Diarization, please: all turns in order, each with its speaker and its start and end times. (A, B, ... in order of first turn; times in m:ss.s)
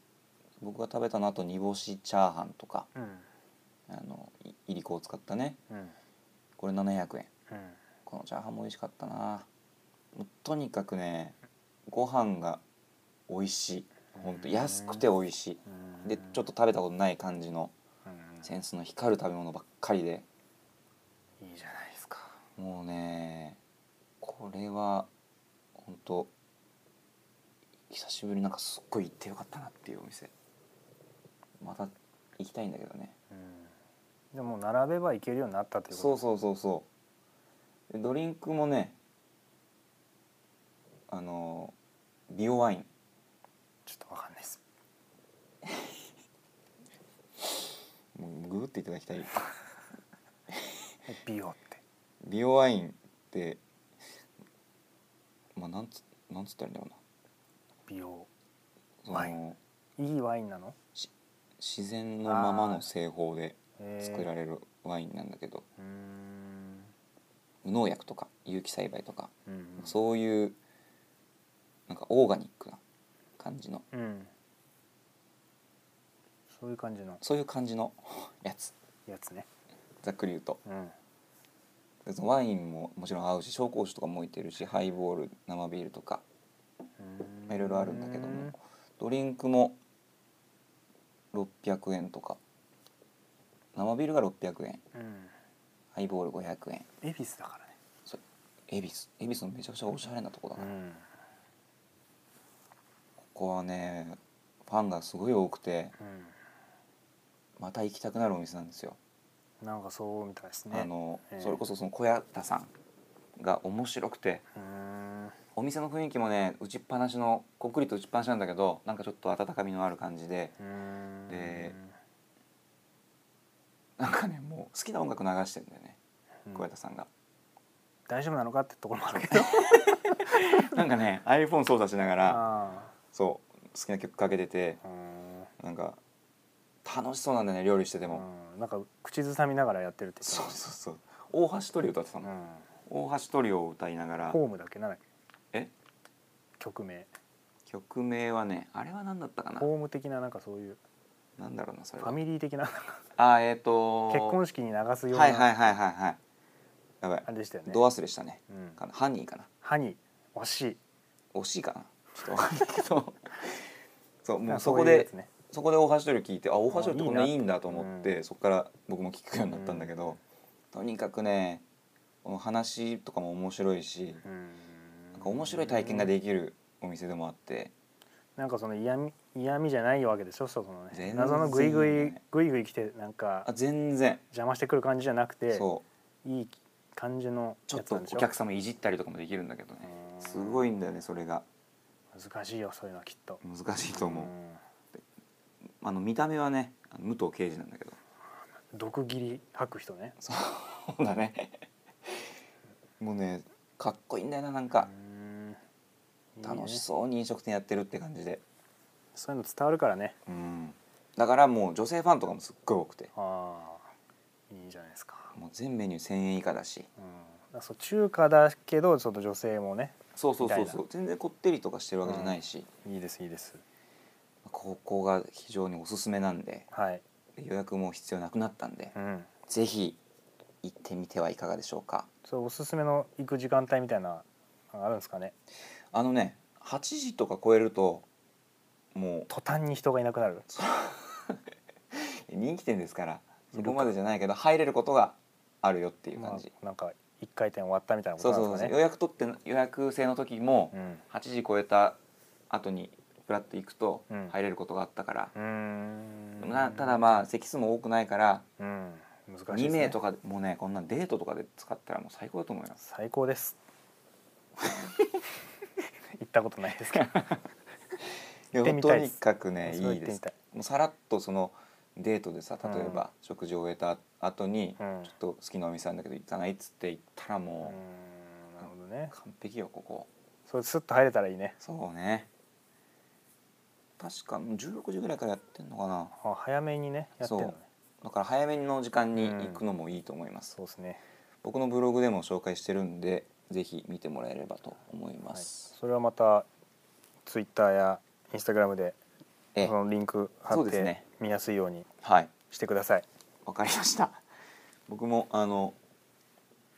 0:00.6-0:02.9 A
0:02.9-0:03.3 B
0:03.9-0:05.6 A
0:05.7-0:05.9 B
0:06.6-0:07.3 A
0:07.5-0:07.8 B
0:08.0-0:09.5 A
0:10.1-0:11.4 A
0:11.9-0:12.6 A
0:13.3-0:17.7 A
0:14.1-0:15.1 B
0:15.7-0:16.4 B
0:18.0-0:18.5 B
0:18.4-0:20.2 A
0:21.4-0:22.4 B
0:22.6-0:23.6 A
0:24.2-0:25.1 A
0:25.8-0:26.3 A
0:27.9-0:30.3 A
0:31.6-0:33.1 A
0:33.3-0:33.7 B
0:34.3-0:36.2 B
0:35.9-0:36.9 A
0:37.9-0:39.0 A
0:41.1-0:41.7 A
0:42.3-0:42.9 A
0:43.8-0:44.6 B
0:48.1-0:49.4 A
0:51.1-0:51.8 B
0:52.2-0:53.6 A
0:55.6-0:57.0 A
0:57.9-0:58.3 B
0:59.0-0:59.6 A
1:00.0-1:00.8 B
1:01.0-1:05.6 A
1:02.2-1:02.8 B
1:03.8-1:04.3 B
1:05.8-1:06.9 B
1:07.6-1:10.6 A
1:09.4-1:10.0 B
1:11.9-1:12.8 A
1:13.4-1:13.8 A
1:13.9-1:14.3 B
1:16.5-1:17.2 B
1:17.2-1:18.7 A
1:19.1-1:19.5 B
1:20.0-1:20.6 A
1:20.6-1:20.9 B
1:22.0-1:26.2 A
1:27.0-1:28.6 B
1:27.5-1:29.8 A
1:31.3-1:32.4 A
1:33.7-1:34.8 A
1:34.9-1:35.3 B
1:35.9-1:36.9 A
1:37.0-1:37.8 B
1:38.0-1:40.7 A
1:40.6-1:41.0 B
1:43.2-1:45.9 A
1:46.0-1:46.3 B
1:47.6-1:49.0 A
1:49.6-1:51.6 B
1:50.7-1:52.7 A
1:53.4-1:54.4 A
1:54.5-1:55.4 B
1:55.5-2:00.6 A
2:00.6-2:01.9 B
2:01.3-2:01.8 A
2:04.0-2:06.0 A
2:06.5-2:07.1 A
2:08.1-2:09.9 B
2:09.2-2:12.4 A
2:12.2-2:12.9 B
2:13.1-2:14.8 A
2:14.8-2:15.5 B
2:15.6-2:16.0 A
2:16.8-2:18.2 A
2:18.1-2:20.6 B
2:20.2-2:22.3 A
2:22.2-2:22.7 B
2:22.8-2:24.4 A
2:24.3-2:25.0 B
2:26.6-2:27.1 B
2:27.7-2:29.7 A
2:29.6-2:30.8 B
2:31.4-2:32.2 A
2:32.0-2:33.0 B
2:33.2-2:34.4 A
2:34.1-2:35.6 B
2:35.1-2:36.2 A
2:37.0-2:39.5 A
2:37.2-2:37.8 B
2:38.5-2:38.8 B
2:39.6-2:40.8 B
2:41.3-2:43.5 A
2:44.2-2:50.2 A
2:44.5-2:45.3 B
2:46.7-2:48.1 B
2:49.5-2:49.9 B
2:50.7-2:51.6 A
2:52.2-2:54.2 A
2:54.2-2:56.1 B
2:55.1-2:57.7 A
2:58.4-3:03.5 B
3:00.9-3:02.2 A
3:03.4-3:04.2 A
3:04.3-3:05.7 B
3:05.5-3:05.8 A
3:06.2-3:08.3 B
3:07.7-3:11.4 A
3:09.8-3:10.7 B
3:12.1-3:14.6 B
3:13.4-3:14.3 A
3:15.8-3:18.0 A
3:18.7-3:20.2 B
3:20.2-3:21.6 A
3:23.0-3:24.9 A
3:24.8-3:25.6 B
3:26.4-3:26.8 B
3:26.4-3:28.4 A
3:29.1-3:30.2 B
3:30.2-3:33.1 A
3:33.1-3:33.9 B
3:34.5-3:35.4 B
3:35.3-3:36.9 A
3:37.0-3:40.8 B
3:40.1-3:42.7 A
3:42.0-3:43.6 B
3:44.4-3:46.7 A
3:46.7-3:47.0 B
3:47.4-3:48.9 A
3:48.9-3:49.3 B
3:49.5-3:50.0 A
3:50.6-3:52.1 A
3:52.2-3:55.3 B
3:55.9-3:58.0 A
3:58.9-3:59.3 A
3:59.3-4:00.4 B
4:00.5-4:01.4 A
4:01.9-4:06.5 A
4:03.5-4:03.9 B
4:06.1-4:08.8 B
4:08.2-4:12.0 A
4:10.7-4:11.0 B
4:12.5-4:15.3 A
4:14.1-4:14.3 B
4:15.3-4:17.2 B
4:16.4-4:18.4 A
4:18.6-4:20.0 B
4:19.5-4:22.8 A
4:22.8-4:23.6 B
4:26.2-4:27.3 B
4:26.9-4:27.4 A
4:28.5-4:37.8 A
4:28.6-4:30.4 B
4:32.6-4:33.0 B
4:34.8-4:35.1 B
4:37.6-4:39.1 B
4:39.1-4:40.1 A
4:40.5-4:41.6 B
4:41.6-4:42.3 A
4:44.0-4:46.1 A
4:46.1-4:47.6 B
4:47.2-4:50.5 A
4:49.2-4:49.6 B
4:50.5-4:51.0 B
4:51.4-4:55.7 A
4:55.3-4:56.5 B
4:57.2-4:59.0 B
4:59.6-5:01.9 B
5:00.5-5:01.0 A
5:02.0-5:02.3 A
5:02.5-5:03.0 B
5:03.4-5:04.2 A
5:04.9-5:05.8 A